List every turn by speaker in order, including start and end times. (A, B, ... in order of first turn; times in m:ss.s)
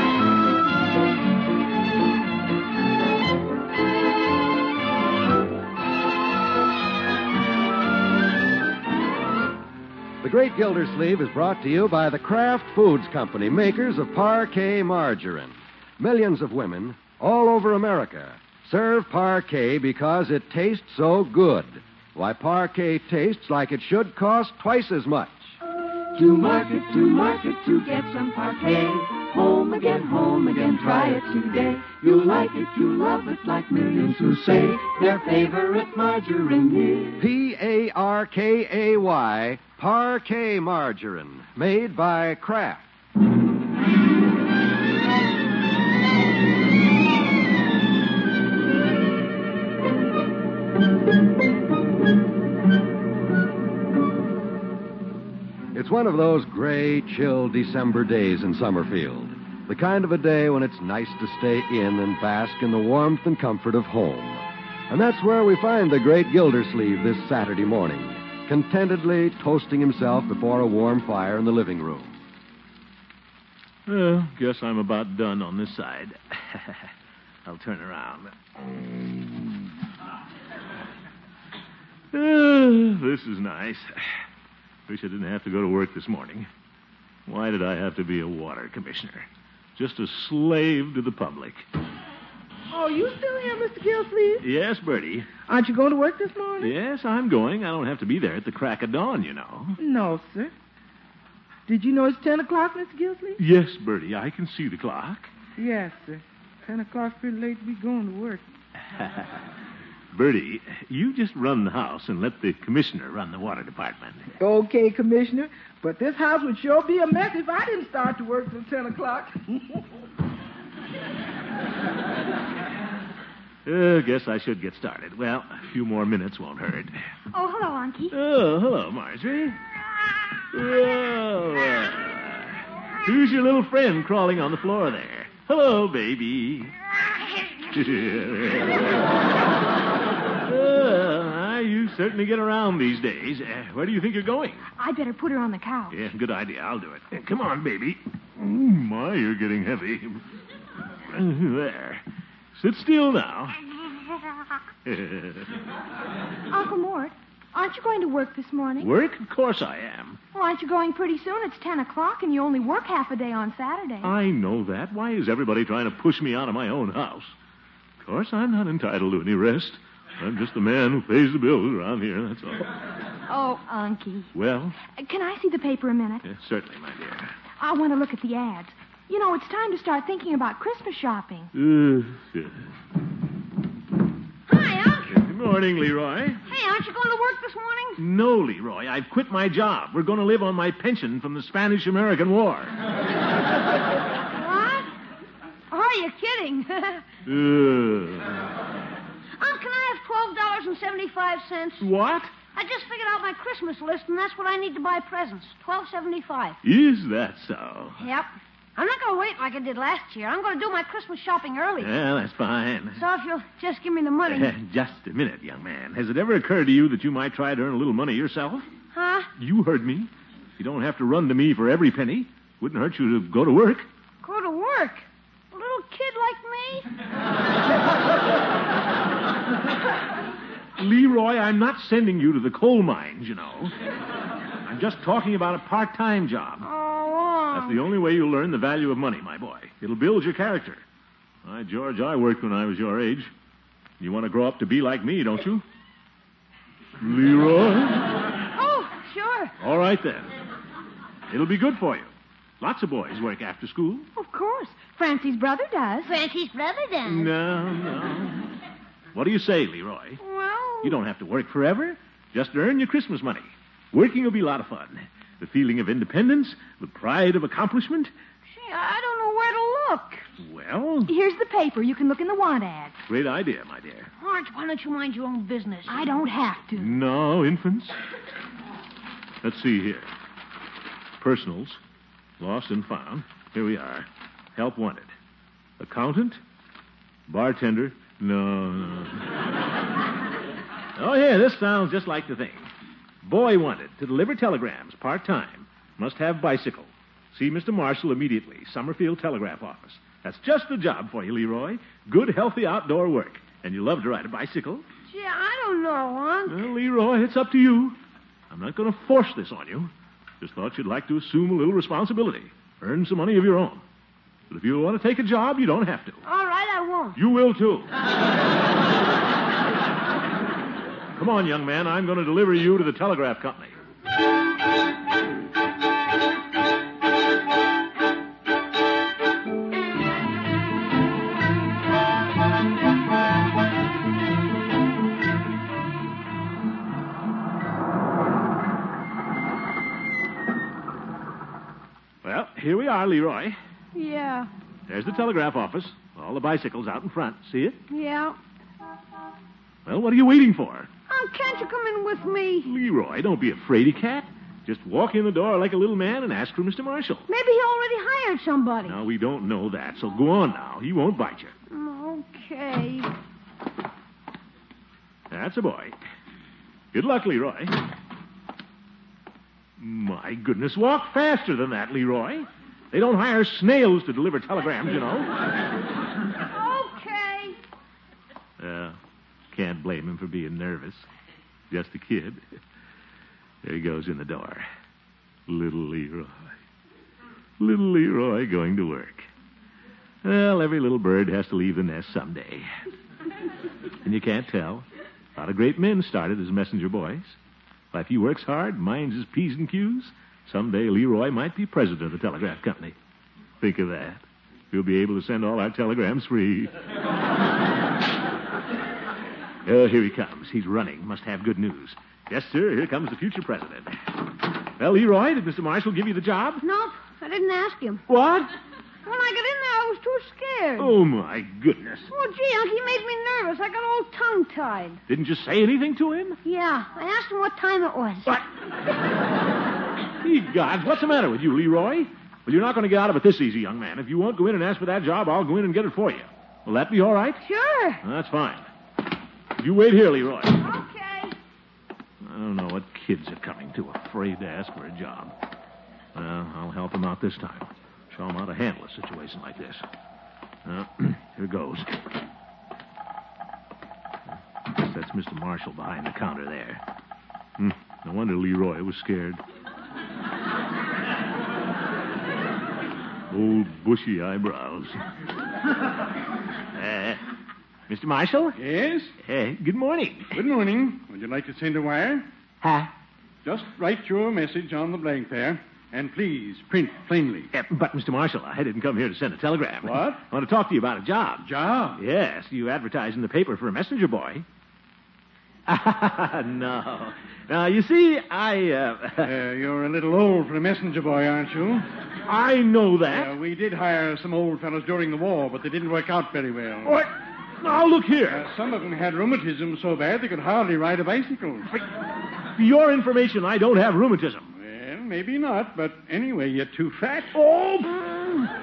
0:10.2-0:25.6 A
0:26.1-0:37.2 B
0:37.2-0:42.8 A
0:55.7-1:12.2 A
1:13.9-1:16.9 C
1:17.4-1:18.3 C
1:22.1-1:24.0 C
1:24.9-1:26.5 C
1:27.3-1:31.7 C
1:32.7-1:34.4 D
1:34.4-1:35.3 C
1:35.5-1:36.7 D
1:36.6-1:39.8 C
1:39.8-1:40.5 D
1:41.7-1:43.4 D
1:43.4-1:45.3 C
1:45.6-1:48.4 D
1:49.0-1:49.3 C
1:50.1-1:54.2 C
1:54.4-1:59.5 D
2:03.6-2:06.9 C
2:07.3-2:08.1 E
2:08.1-2:09.6 C
2:10.5-2:16.8 C
2:17.7-2:19.0 C
2:20.4-2:24.7 C
2:24.8-2:26.0 E
2:25.9-2:30.2 C
2:31.1-2:32.0 C
2:32.6-2:33.6 C
2:34.8-2:35.5 C
2:36.5-2:38.9 E
2:38.8-2:40.2 C
2:40.3-2:44.1 E
2:44.0-2:47.3 C
2:48.0-2:52.7 C
2:53.3-2:54.3 E
2:54.3-2:54.8 C
2:54.8-2:56.2 E
2:56.2-2:57.3 C
2:57.6-3:01.5 E
3:01.5-3:02.6 C
3:04.5-3:05.2 F
3:05.1-3:06.4 C
3:06.5-3:08.0 F
3:08.0-3:12.7 C
3:14.3-3:14.9 F
3:15.7-3:17.0 F
3:17.2-3:18.4 C
3:19.4-3:21.8 F
3:21.8-3:22.3 C
3:22.5-3:26.6 F
3:26.6-3:28.0 C
3:28.0-3:31.9 F
3:31.8-3:33.0 C
3:33.0-3:34.5 F
3:34.3-3:38.7 C
3:38.9-3:39.3 F
3:39.4-3:43.9 C
3:44.2-3:46.9 F
3:50.8-3:53.7 C
3:54.6-3:56.7 C
3:56.6-3:57.8 F
3:57.5-4:00.8 C
4:01.4-4:03.3 C
4:04.0-4:05.6 C
4:07.0-4:08.1 C
4:08.5-4:09.5 F
4:09.6-4:10.3 C
4:11.3-4:14.1 C
4:14.2-4:16.1 E
4:16.0-4:17.3 F
4:17.1-4:18.5 C
4:19.1-4:20.2 C
4:20.2-4:20.9 F
4:20.8-4:28.1 C
4:28.5-4:30.2 F
4:30.4-4:31.1 C
4:31.1-4:33.0 E
4:33.1-4:34.1 C
4:34.2-4:36.0 F
4:35.9-4:36.9 E
4:36.8-4:38.0 C
4:39.4-4:40.1 C
4:41.2-4:41.8 C
4:42.4-4:45.1 C
4:45.8-4:46.4 C
4:47.3-4:49.3 C
4:51.0-4:52.7 C
4:53.2-5:04.8 C
5:05.1-5:06.7 F
5:06.5-5:08.0 C
5:08.5-5:13.8 C
5:14.5-5:16.2 C
5:16.2-5:17.2 F
5:17.2-5:17.9 C
5:21.2-5:23.7 C
5:42.2-5:43.6 C
5:43.9-5:44.5 F
5:44.9-5:47.8 C
5:47.9-5:48.4 F
5:49.9-5:50.9 C
5:51.1-5:52.7 F
5:52.6-5:57.3 C
5:57.3-5:59.0 F
5:58.9-6:01.5 C
6:01.7-6:03.1 F
6:05.3-6:06.0 C
6:06.9-6:07.7 C
6:09.8-6:15.3 C
6:16.5-6:17.6 F
6:18.6-6:19.0 C
6:19.5-6:21.1 C
6:21.7-6:22.4 C
6:23.6-6:24.7 C
6:25.5-6:26.5 C
6:27.6-6:29.3 C
6:30.2-6:32.7 C
6:34.0-6:37.4 C
6:37.9-6:43.0 C
6:43.6-6:46.7 C
6:49.6-6:54.0 C
6:54.8-6:56.6 C
6:56.6-6:58.0 F
6:58.1-6:58.5 C
6:59.0-7:01.0 F
7:00.8-7:02.1 C
7:02.1-7:05.0 F
7:05.1-7:06.4 C
7:06.4-7:08.3 F
7:10.2-7:17.4 C
7:17.4-7:18.0 F
7:18.0-7:18.7 C
7:19.6-7:20.6 C
7:20.6-7:21.4 F
7:22.2-7:25.3 C
7:26.2-7:29.8 C
7:30.7-7:32.0 C
7:34.7-7:36.8 C
7:37.6-7:39.4 C
7:43.3-7:45.0 C
7:46.7-7:47.2 C
7:47.9-7:48.6 C
7:48.6-7:49.1 G
7:49.2-7:50.4 C
7:50.3-7:52.3 G
7:52.6-7:52.9 C
7:53.4-7:57.5 G
7:57.5-8:04.4 C
7:59.8-8:00.2 G
8:01.4-8:02.0 G
8:05.7-8:09.3 C
8:09.2-8:11.9 G
8:12.3-8:13.3 C
8:13.1-8:17.0 G
8:16.8-8:18.5 C
8:18.3-8:21.7 G
8:22.6-8:24.5 C
8:24.6-8:27.3 G
8:27.3-8:28.4 C